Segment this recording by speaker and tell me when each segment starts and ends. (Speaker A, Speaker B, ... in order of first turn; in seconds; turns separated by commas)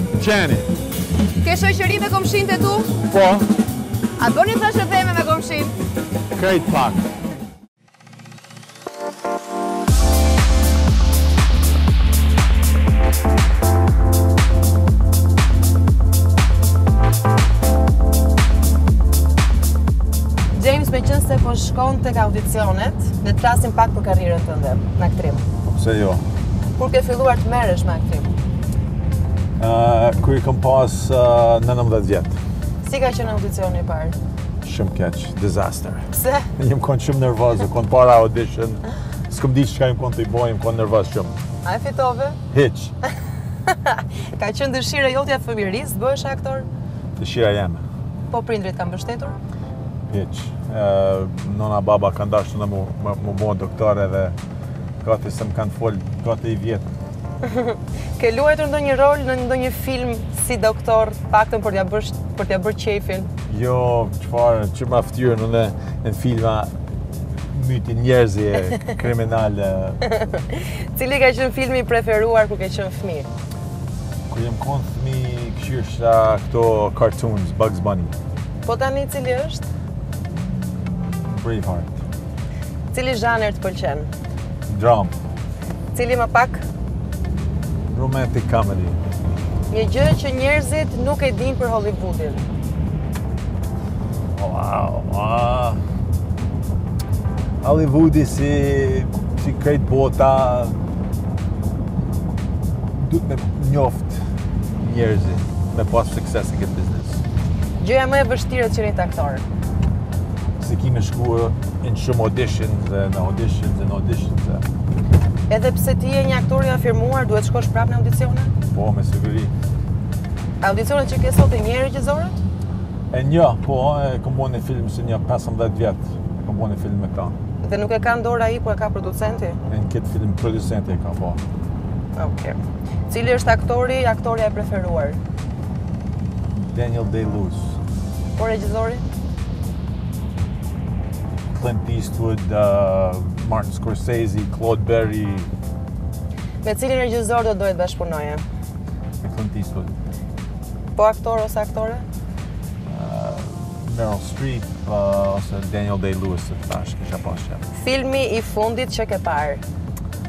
Speaker A: 0.1-0.7, Speaker B: 1.4-2.9, Speaker A: 3.0-3.5, Speaker B: 4.2-5.8, Speaker A: 6.3-7.1, Speaker B: 20.5-25.4, Speaker A: 25.6-26.2, Speaker B: 26.8-28.3, Speaker A: 29.6-32.4, Speaker B: 32.8-34.1, Speaker A: 34.6-41.3, Speaker B: 36.1-36.5, Speaker B: 41.6-42.4, Speaker A: 42.5-42.9, Speaker B: 43.7-46.7, Speaker A: 47.2-47.8, Speaker B: 48.3-49.4, Speaker A: 50.1-54.4, Speaker A: 55.0-56.9, Speaker B: 57.4-63.3, Speaker A: 63.5-66.7, Speaker A: 67.5-70.0, Speaker B: 70.0-73.3, Speaker A: 74.3-78.2, Speaker B: 78.6-79.6, Speaker A: 81.0-82.0, Speaker B: 82.9-84.1, Speaker A: 84.7-85.2, Speaker B: 85.9-86.6, Speaker A: 87.9-89.0, Speaker B: 89.7-92.4, Speaker A: 94.3-95.8, Speaker A: 97.6-100.8, Speaker A: 102.9-104.2, Speaker A: 104.8-107.2, Speaker B: 107.8-109.4, Speaker A: 110.6-114.7, Speaker B: 115.5-118.5, Speaker A: 118.7-119.5, Speaker B: 120.6-122.4, Speaker A: 123.1-127.3, Speaker B: 127.6-129.6, Speaker A: 129.7-131.4, Speaker B: 132.2-132.6, Speaker B: 133.1-135.2, Speaker A: 136.6-137.8, Speaker B: 138.3-139.0, Speaker A: 141.5-145.5, Speaker B: 146.6-148.4, Speaker A: 149.2-149.9, Speaker B: 150.9-152.0, Speaker A: 152.9-157.6, Speaker B: 157.7-159.6